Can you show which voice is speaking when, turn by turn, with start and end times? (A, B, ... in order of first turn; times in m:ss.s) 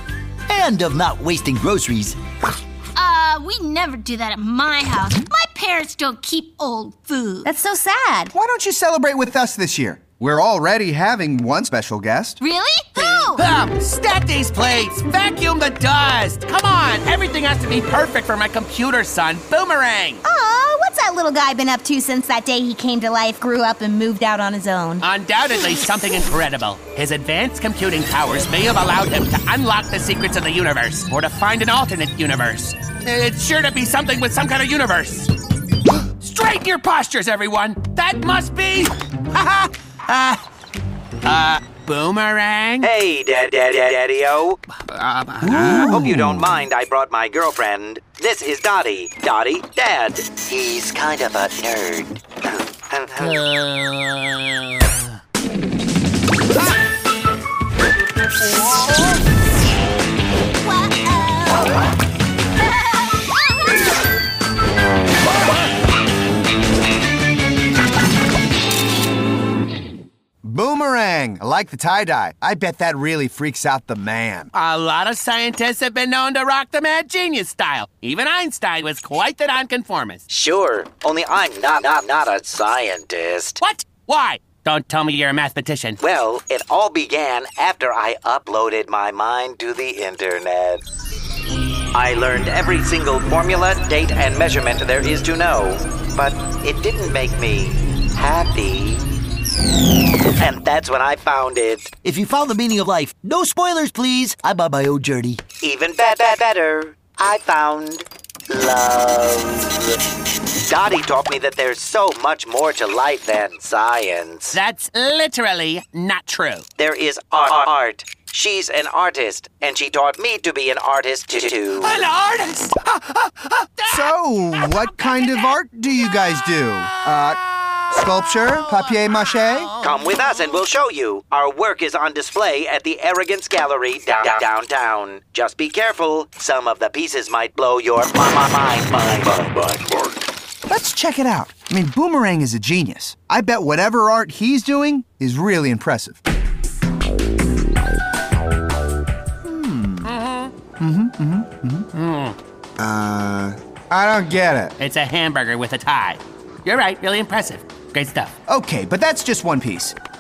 0:00.5-0:02.2 A
0:03.0-0:07.5 B
0:07.4-0:08.3 C
0:08.3-0:12.4 D
0:12.4-0:13.4 B
0:13.0-0:20.2 E
0:20.3-0:25.0 C
0:25.0-0:35.3 E
0:36.2-0:40.4 E
0:41.2-0:42.9 E
0:42.8-0:44.6 F
0:44.9-0:46.0 E
0:45.4-0:46.5 D
0:45.8-0:53.4 F
0:53.2-0:54.9 E
1:00.6-1:01.8 B
1:02.6-1:03.9 B
1:10.4-1:14.5 D
1:14.5-1:20.2 E
1:20.3-1:23.6 F
1:23.6-1:26.0 E
1:26.0-1:30.8 F
1:31.9-1:39.0 F
1:40.4-1:41.9 F
1:42.0-1:45.4 A
1:45.6-1:50.0 F
1:50.7-1:54.6 F
1:54.5-1:56.6 E
1:56.8-2:02.0 F
2:01.8-2:04.1 E
2:03.9-2:09.7 D
2:04.8-2:05.5 E
2:07.9-2:10.6 E
2:09.8-2:20.1 F
2:20.7-2:26.2 D
2:29.4-2:30.1 D
2:30.0-2:30.5 E
2:30.8-2:31.9 D
2:31.9-2:32.4 E
2:32.8-2:34.8 D
2:34.8-2:38.3 E
2:38.5-2:40.0 D